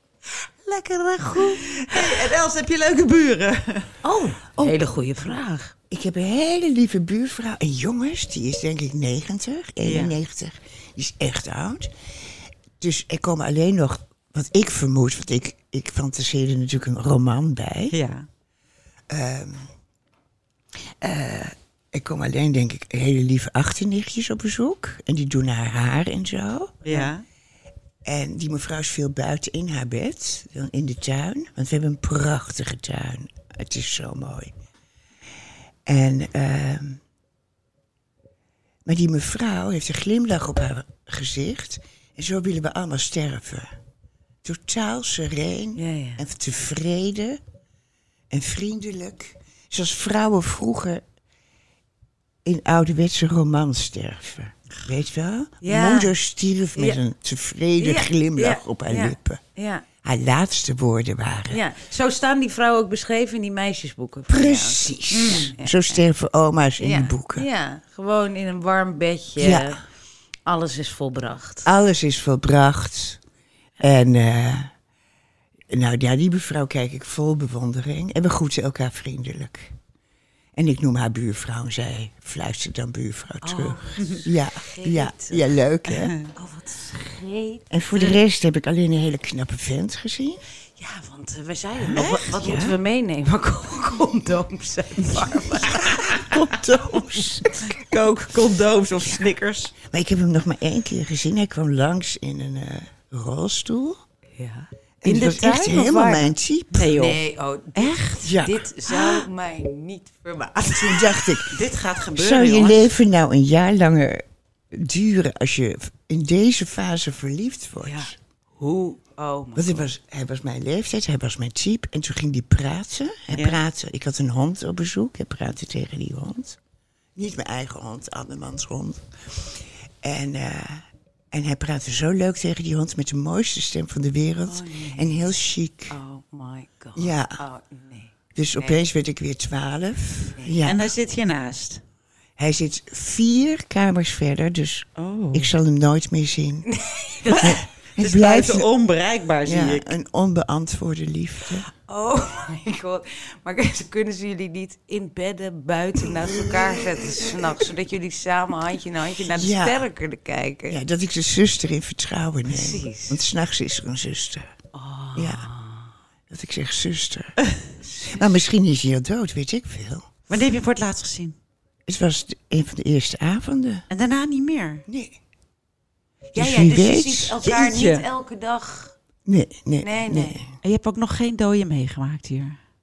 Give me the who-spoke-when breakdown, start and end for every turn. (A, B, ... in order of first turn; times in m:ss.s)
0:00.6-0:02.2 A
0:01.7-0:03.9 B
0:04.0-0:05.7 A
0:05.9-0:11.9 C
0:09.8-0:10.2 B
0:12.8-0:18.0 C
0:17.9-0:18.3 B
0:19.1-0:19.7 C
0:21.0-0:27.1 C
0:26.8-0:27.2 B
0:28.0-0:34.5 C
0:35.9-0:37.0 C
0:38.8-0:43.8 C
0:44.4-0:47.4 C
0:45.8-0:46.2 A
0:48.3-0:51.0 C
0:52.4-0:59.4 C
0:55.6-0:56.1 A
0:56.8-0:57.0 A
0:57.8-0:59.9 A
1:00.0-1:01.6 C
1:01.5-1:06.0 A
1:04.3-1:07.5 C
1:05.1-1:05.5 B
1:06.8-1:09.8 A
1:09.4-1:09.8 C
1:10.5-1:11.7 A
1:11.6-1:13.2 C
1:13.8-1:14.7 C
1:15.7-1:19.8 C
1:20.6-1:26.2 C
1:23.4-1:25.4 A
1:25.9-1:26.2 B
1:26.4-1:28.1 A
1:27.7-1:30.4 C
1:30.8-1:36.5 A
1:31.9-1:32.8 C
1:32.0-1:32.3 B
1:35.8-1:37.8 C
1:37.8-1:39.8 B
1:39.8-1:44.0 C
1:44.4-1:46.3 A
1:45.0-1:46.9 C
1:46.8-1:47.2 B
1:46.8-1:51.3 A
1:47.8-1:48.4 B
1:48.2-1:48.7 C
1:50.8-1:51.6 C
1:51.5-1:52.9 B
1:52.2-1:58.2 C
1:57.8-1:59.9 A
1:59.6-2:06.6 C
2:03.3-2:03.6 B
2:07.2-2:16.0 C
2:14.5-2:15.1 A
2:15.9-2:18.8 A
2:17.0-2:17.4 C
2:18.4-2:20.9 C
2:20.6-2:21.8 B
2:22.4-2:26.7 C
2:25.0-2:25.5 B
2:26.7-2:27.6 A
2:27.3-2:29.9 B
2:27.4-2:28.7 C
2:29.4-2:31.7 C
2:31.9-2:40.8 A
2:39.3-2:39.9 C
2:40.7-2:44.5 C
2:42.5-2:43.2 A
2:44.7-2:45.9 A
2:45.2-2:45.5 C
2:46.3-2:47.4 C
2:48.0-2:50.1 C
2:50.3-2:51.4 B
2:51.9-2:53.8 C
2:53.9-2:54.8 B
2:54.9-2:55.2 C
2:56.3-2:58.9 A
2:56.4-2:57.4 C
2:57.4-2:58.0 B
2:59.3-3:00.5 C
2:59.8-3:00.4 A
3:00.6-3:02.6 B